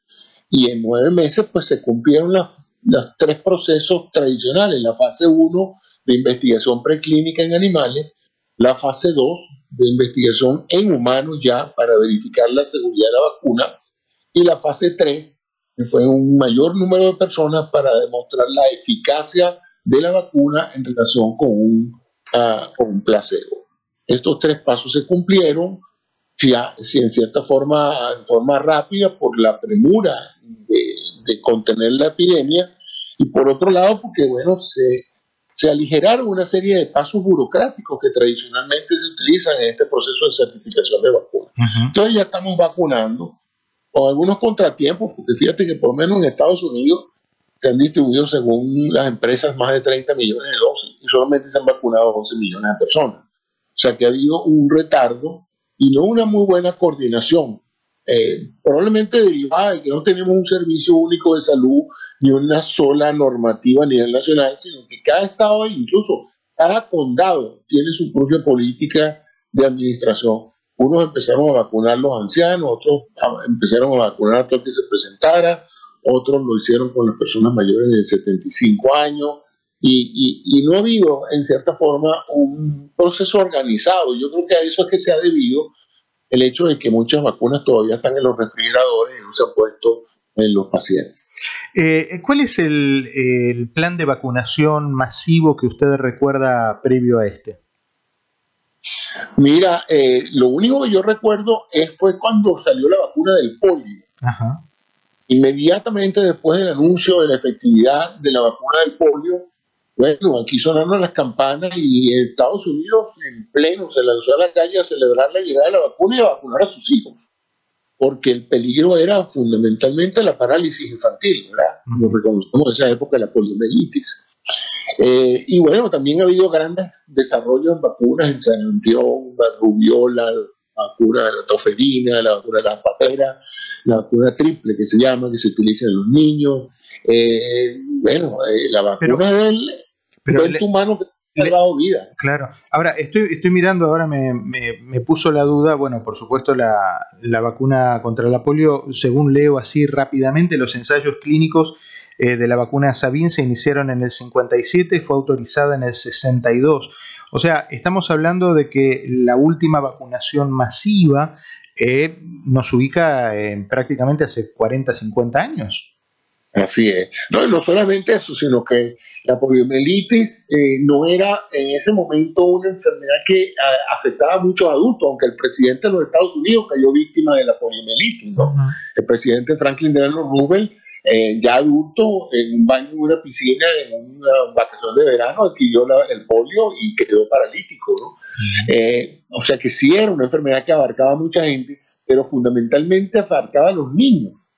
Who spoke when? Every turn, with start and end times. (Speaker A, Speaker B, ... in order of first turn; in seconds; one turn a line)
Speaker A: 0.5-13.7
Speaker A: 14.3-25.8
Speaker A: 26.4-35.0
Speaker A: 35.5-43.4
Speaker B: 41.6-41.9
Speaker A: 43.9-47.1
Speaker A: 47.6-53.2
Speaker A: 53.8-85.7
Speaker A: 86.3-91.3
Speaker B: 91.8-97.6
Speaker A: 99.4-104.0
Speaker B: 104.2-104.6
Speaker A: 105.3-117.2
Speaker A: 118.0-124.2
Speaker B: 121.9-122.2
Speaker A: 125.0-139.8
Speaker B: 140.2-140.6
Speaker A: 140.3-142.1
Speaker B: 142.2-165.8
Speaker A: 166.5-194.4
Speaker B: 178.4-178.8
Speaker B: 188.4-188.7